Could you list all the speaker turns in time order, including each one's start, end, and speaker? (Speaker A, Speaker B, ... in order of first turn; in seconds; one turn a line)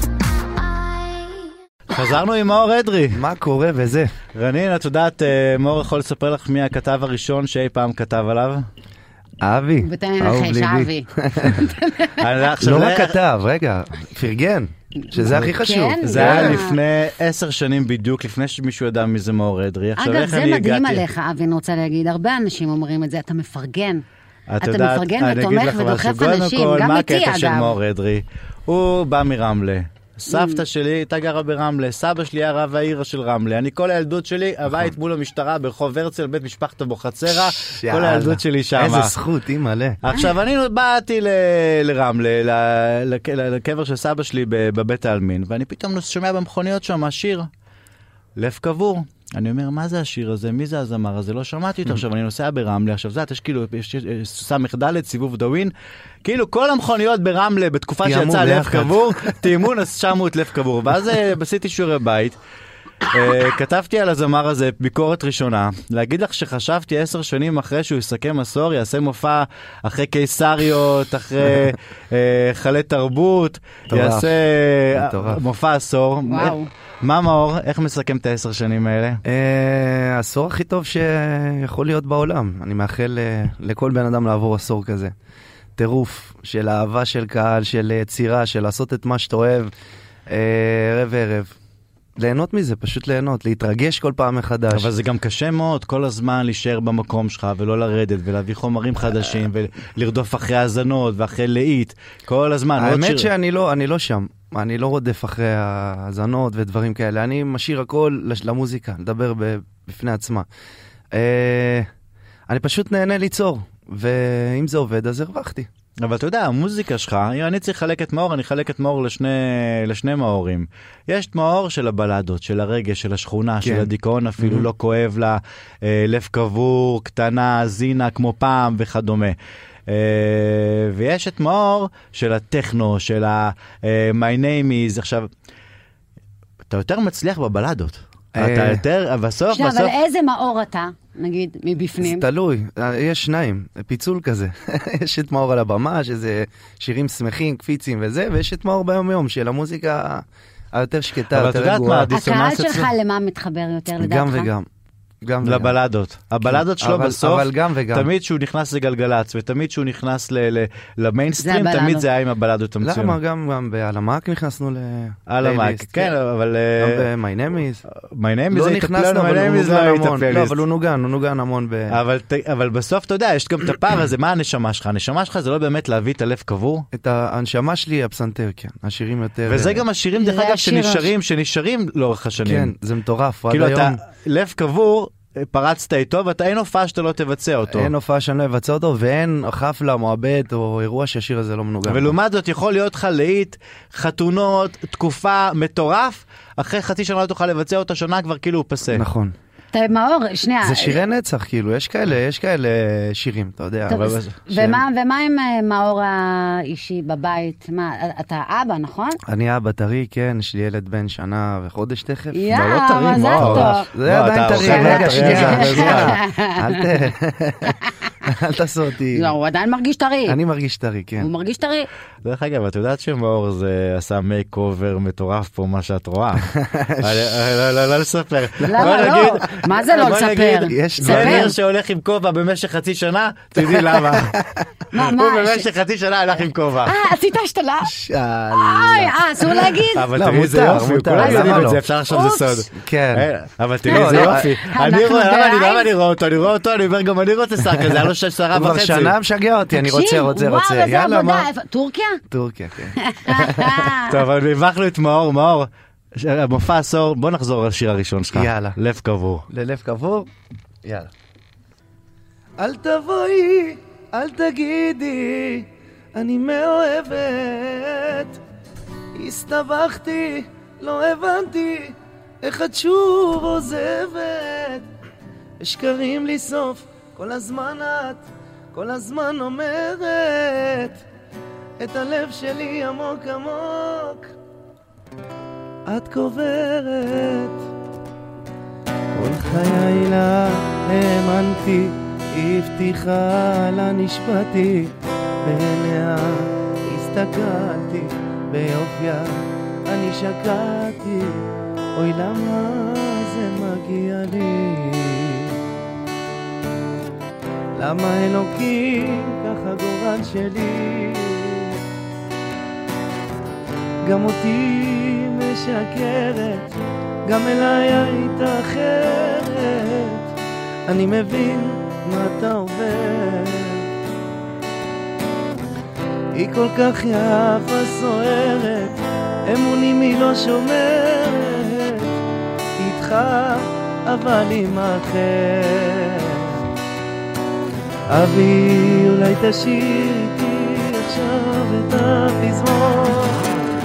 Speaker A: 0.6-1.5
Speaker B: 1.9-3.2
Speaker C: 3.1-4.1
Speaker B: 4.3-8.7
Speaker C: 9.4-11.6
Speaker A: 9.8-12.2
Speaker B: 12.2-13.2
Speaker C: 12.6-16.6
Speaker A: 15.1-16.8
Speaker B: 16.0-21.0
Speaker A: 20.0-24.0
Speaker B: 24.5-39.1
Speaker A: 24.6-27.8
Speaker A: 30.3-30.6
Speaker C: 37.3-40.0
Speaker B: 40.0-47.5
Speaker B: 48.4-55.7
Speaker B: 56.2-62.4
Speaker C: 58.0-59.1
Speaker B: 63.1-79.2
Speaker C: 73.9-74.4
Speaker C: 74.9-75.4
Speaker A: 76.3-76.7
Speaker C: 79.2-85.1
Speaker C: 85.8-89.7
Speaker C: 90.3-91.5
Speaker C: 92.2-94.9
Speaker B: 94.7-103.3
Speaker C: 102.8-110.5
Speaker C: 111.2-111.9
Speaker C: 112.5-115.7
Speaker B: 116.0-129.3
Speaker C: 123.6-124.7
Speaker B: 129.9-135.3
Speaker B: 136.7-139.9
Speaker C: 138.3-138.8
Speaker A: 139.5-142.2
Speaker C: 142.0-152.1
Speaker B: 151.3-152.9
Speaker A: 152.1-154.5
Speaker C: 153.9-154.7
Speaker C: 155.2-155.8
Speaker B: 155.4-163.2
Speaker C: 156.4-158.1
Speaker A: 161.4-162.1
Speaker C: 162.8-166.2
Speaker B: 165.3-167.0
Speaker C: 166.8-167.8
Speaker B: 167.9-170.6
Speaker C: 168.5-172.0
Speaker B: 171.9-176.9
Speaker C: 176.9-179.8
Speaker B: 179.4-182.7
Speaker A: 180.1-181.1
Speaker C: 182.4-184.0
Speaker B: 183.5-187.9
Speaker C: 187.7-192.1
Speaker B: 191.9-199.1
Speaker C: 198.9-199.3
Speaker A: 199.7-201.0
Speaker C: 200.6-204.8
Speaker A: 203.9-209.2
Speaker B: 203.9-204.4
Speaker C: 209.3-212.4
Speaker A: 212.3-213.9
Speaker B: 212.5-216.2
Speaker C: 213.4-219.3
Speaker A: 214.5-217.0
Speaker A: 219.1-220.4
Speaker C: 220.2-221.3
Speaker A: 221.2-221.9
Speaker B: 222.2-234.3
Speaker C: 226.5-227.8
Speaker A: 228.7-231.5
Speaker C: 228.7-231.5
Speaker C: 233.6-234.6
Speaker A: 234.9-235.7
Speaker B: 234.9-236.9
Speaker A: 236.8-237.9
Speaker C: 237.8-241.8
Speaker A: 238.5-240.1
Speaker B: 239.9-249.2
Speaker A: 241.2-242.7
Speaker C: 242.8-243.3
Speaker C: 243.9-244.5
Speaker A: 243.9-245.9
Speaker C: 248.5-251.5
Speaker A: 249.7-252.2
Speaker C: 252.3-253.9
Speaker A: 253.0-254.2
Speaker B: 254.1-259.5
Speaker C: 258.3-258.8
Speaker C: 259.5-260.3
Speaker C: 260.8-261.1
Speaker C: 262.6-268.4
Speaker C: 269.1-274.9
Speaker C: 275.6-281.0
Speaker C: 281.8-284.3
Speaker C: 285.9-287.7
Speaker C: 289.1-294.9
Speaker C: 295.4-305.6
Speaker C: 307.8-311.8
Speaker C: 314.1-316.8
Speaker C: 317.3-320.2
Speaker C: 320.9-323.9
Speaker C: 326.4-332.2
Speaker C: 332.8-336.6
Speaker C: 338.1-343.5